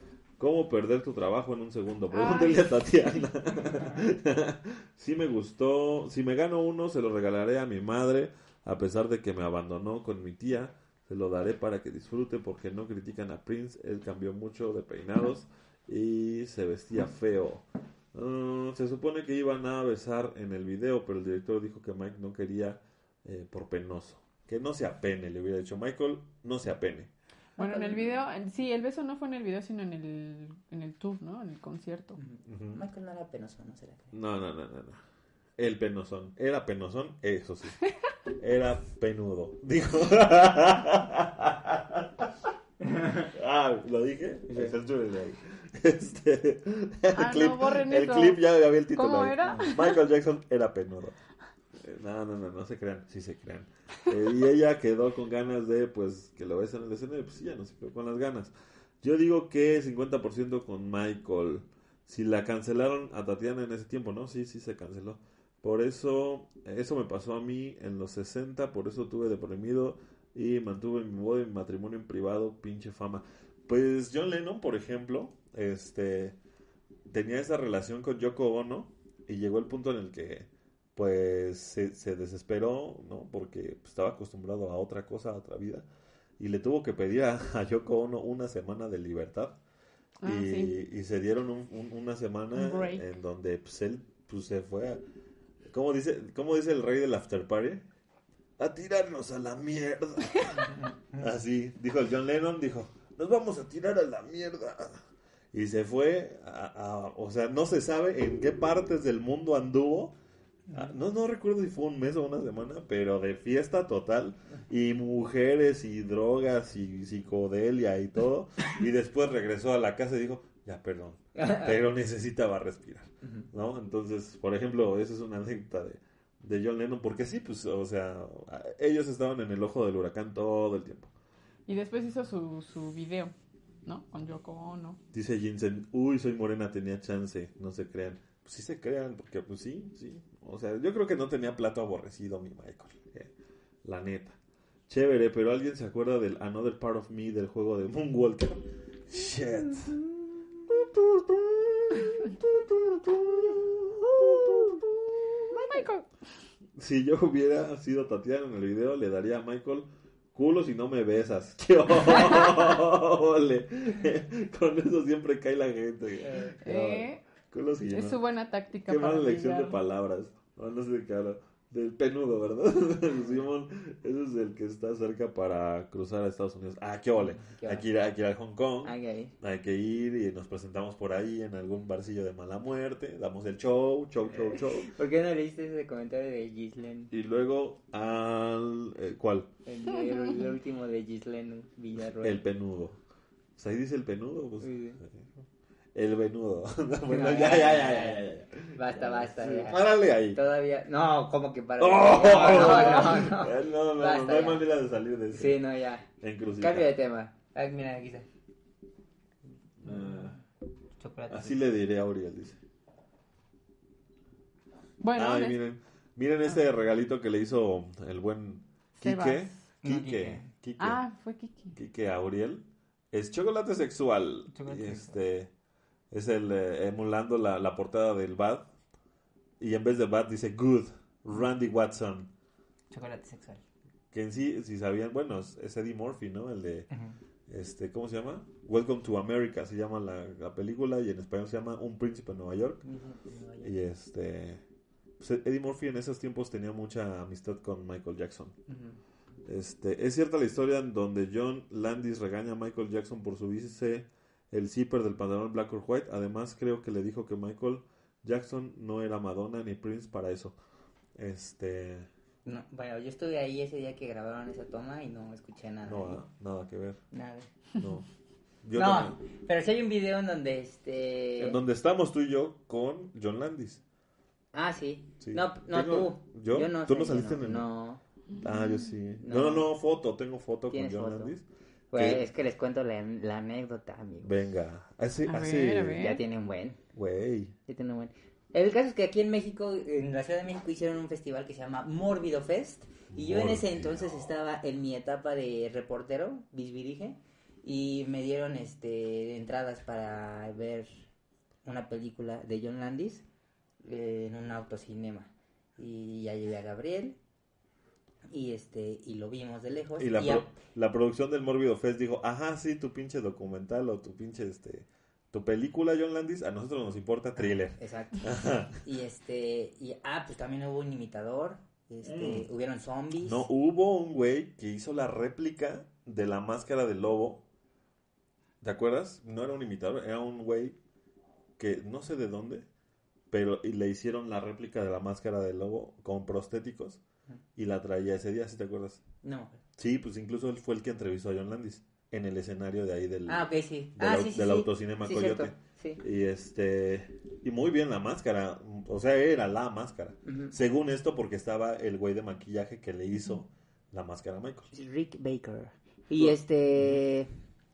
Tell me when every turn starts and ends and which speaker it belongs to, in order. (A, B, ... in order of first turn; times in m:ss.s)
0:00.4-0:27.1 A
0:02.1-0:03.3 B
0:27.6-0:28.1 C
0:27.6-0:32.2 B
0:32.2-0:34.1 C
0:32.4-0:32.8 A
0:34.1-0:35.0 A
0:35.6-0:37.8 A
0:38.4-0:42.5 A
0:42.8-0:43.3 C
0:43.3-0:51.2 A
0:44.5-0:44.7 C
0:47.1-0:50.0 B
0:49.4-0:49.7 C
0:51.7-1:16.4 A
1:17.1-1:25.8 A
1:26.4-1:29.6 A
1:30.2-1:30.8 B
1:30.2-1:35.0 A
1:32.5-1:33.0 B
1:35.7-1:37.8 A
1:38.6-1:40.6 A
1:40.6-1:41.3 C
1:41.2-1:50.1 A
1:50.7-1:51.0 C
1:50.7-2:11.1 A
2:01.3-2:01.8 C
2:03.2-2:03.5 C
2:11.7-2:13.3 B
2:13.8-2:15.0 B
2:15.1-2:23.3 A
2:23.8-2:24.4 A
2:24.9-2:30.1 A
2:30.7-2:35.5 A
2:35.5-2:36.1 B
2:36.8-2:48.2 A
2:46.2-2:46.6 C
2:46.6-2:47.2 B
2:47.9-2:49.8 B
2:48.8-3:04.9 A
2:57.1-2:57.8 C
2:58.8-2:59.3 C
3:04.3-3:07.1 C
3:07.1-3:09.5 A
3:09.6-3:12.4 C
3:12.2-3:13.0 A
3:13.6-3:15.3 A
3:14.6-3:15.0 C
3:15.9-3:20.4 A
3:17.1-3:24.6 C
3:21.8-3:25.6 A
3:25.3-3:26.0 C
3:26.2-3:26.9 A
3:26.6-3:28.3 C
3:29.8-3:30.4 A
3:29.8-3:30.4 C
3:31.0-3:31.6 C
3:31.3-3:32.6 A
3:35.0-3:35.6 B
3:35.1-3:41.0 A
3:39.0-3:39.6 B
3:39.8-3:40.5 C
3:40.8-3:41.8 B
3:41.7-3:45.5 A
3:44.5-3:45.2 C
3:46.1-3:48.7 A
3:49.6-3:52.3 A
3:52.9-3:53.6 C
3:54.1-3:56.9 A
3:56.9-3:57.2 C
3:57.5-4:02.8 A
4:02.8-4:03.7 C
4:03.6-4:04.6 A
4:05.2-4:08.6 A
4:08.7-4:09.0 C
4:09.4-4:20.6 A
4:21.2-4:22.1 A
4:22.4-4:26.2 C
4:25.8-4:27.0 A
4:27.1-4:27.6 C
4:27.8-4:28.0 A
4:28.6-4:29.2 A
4:28.7-4:31.6 C
4:31.4-4:33.8 A
4:34.5-4:38.0 C
4:35.2-4:37.7 A
4:38.4-4:42.2 A
4:39.2-4:39.7 C
4:40.7-4:41.3 C
4:41.9-4:44.4 C
4:44.2-4:46.0 A
4:45.2-4:46.2 B
4:46.0-4:46.8 C
4:46.9-4:47.6 A
4:47.7-5:01.1 C
4:53.1-4:54.2 A
5:01.6-5:03.2 C
5:03.8-5:07.2 C
5:08.3-5:10.4 C
5:10.0-5:18.8 A
5:17.4-5:23.5 C
5:22.0-5:22.5 A
5:23.2-5:27.4 A
5:28.6-5:30.8 A
5:31.6-5:32.7 A
5:33.3-5:37.0 A
5:37.6-5:39.0 A
5:39.2-5:39.6 C
5:39.8-5:54.7 A
5:43.3-5:46.0 C
5:50.2-5:50.6 C
5:54.7-5:57.3 C
5:56.2-5:57.0 A